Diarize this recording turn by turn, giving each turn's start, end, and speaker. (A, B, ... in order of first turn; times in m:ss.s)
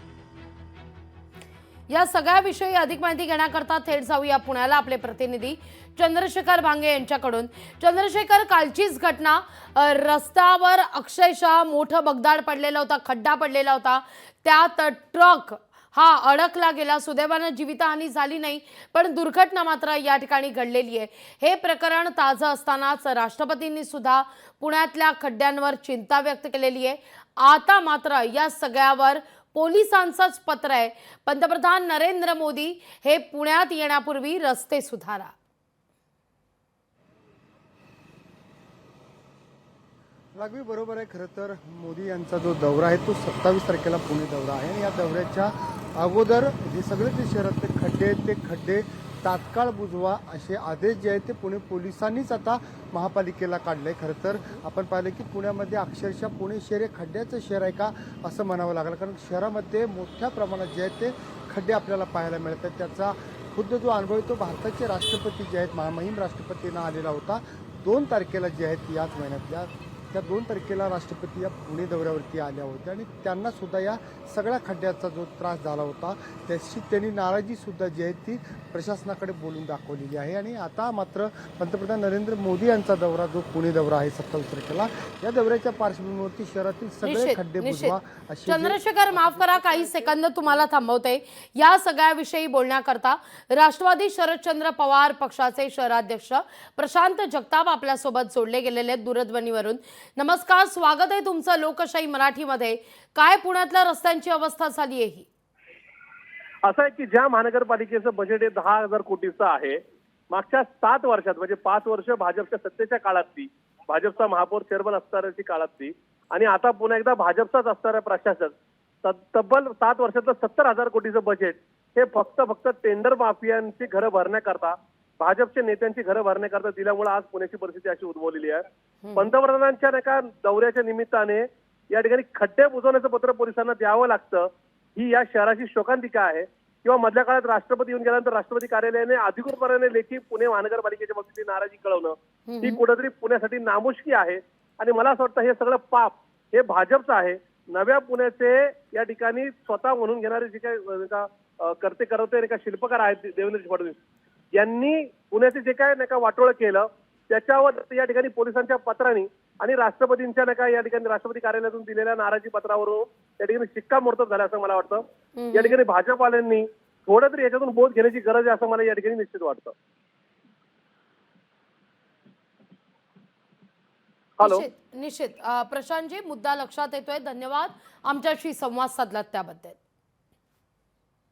0:01.9-0:35.3 A
0:40.3-1:30.8 B
1:27.0-1:27.9 A
1:28.5-1:45.3 A
1:46.6-2:34.0 C
2:22.5-2:22.8 A
2:34.5-2:49.7 C
2:45.4-2:45.8 A
2:54.4-2:54.7 C
2:54.4-2:59.8 A